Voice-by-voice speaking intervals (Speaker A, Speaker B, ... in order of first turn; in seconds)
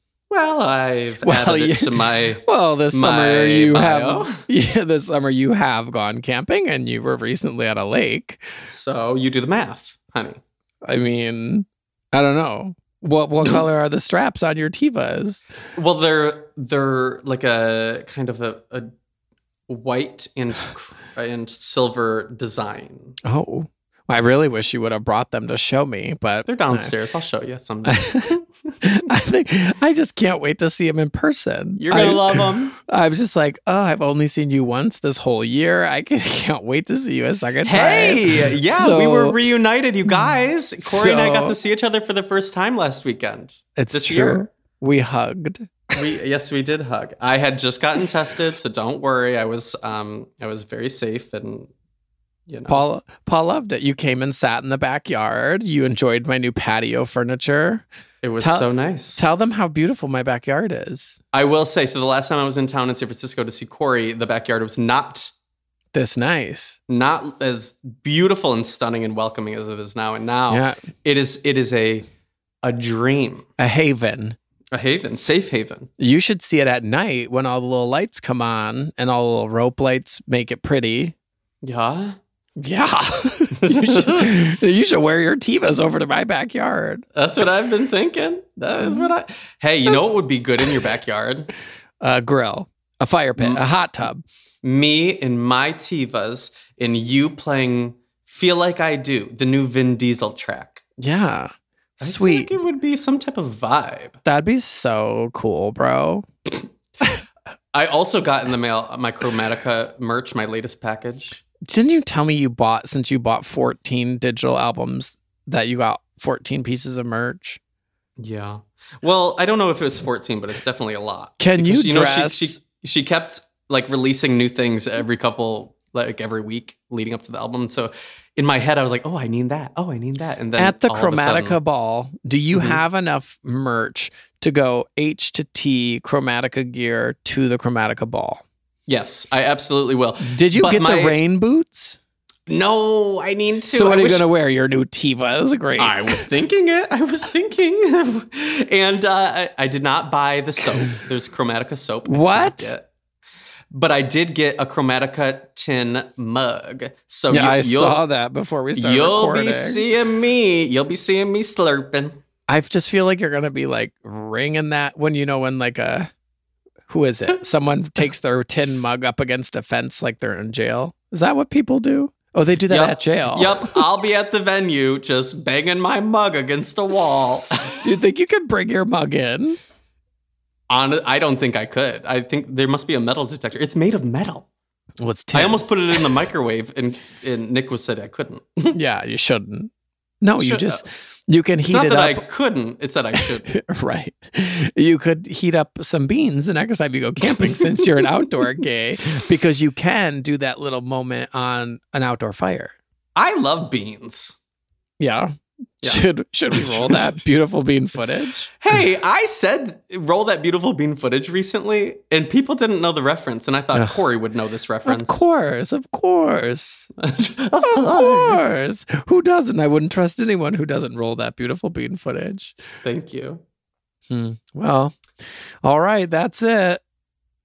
Speaker A: 0.3-4.4, 8.6-10.4, 15.8-18.9, 19.7-23.2, 26.4-28.7, 31.8-32.7, 37.6-44.5, 45.9-51.7, 52.5-52.8, 58.2-59.3, 61.3-65.3, 66.9-72.0, 72.6-73.5, 74.7-75.9, 81.6-82.2, 83.5-84.3, 87.1-91.5, 93.4-93.7, 94.6-100.8, 102.0-104.2, 107.7-111.4, 118.2-131.6, 132.5-132.8, 138.9-141.2, 142.5-144.3, 145.8-152.9, 153.7-158.0, 158.8-162.2, 172.7-177.8, 180.7-184.5, 185.3-188.8, 190.4-190.8, 191.6-193.5, 197.3-198.1, 203.2-204.4, 205.8-207.2, 208.6-215.2, 217.0-218.5, 222.8-223.4
Speaker B: 1.2-8.5, 10.8-15.4, 23.2-26.9, 27.9-39.4, 40.1-41.5, 43.8-46.0, 52.7-57.8, 58.4-61.2, 65.9-66.8, 70.5-70.8, 73.6-74.4, 76.0-81.1, 82.6-87.0, 88.8-89.1, 92.0-94.2, 101.0-102.5, 104.2-106.2, 111.6-117.6, 121.4-122.6, 130.6-138.4, 140.2-142.0, 143.7-146.3, 152.1-152.7, 157.3-159.8, 162.5-166.1, 166.9-173.8, 177.8-179.6, 185.0-186.0, 188.7-192.2, 193.1-202.7, 205.0-208.5, 213.7-214.0, 214.8-216.9, 217.6-222.6, 224.1-224.9, 225.6-226.8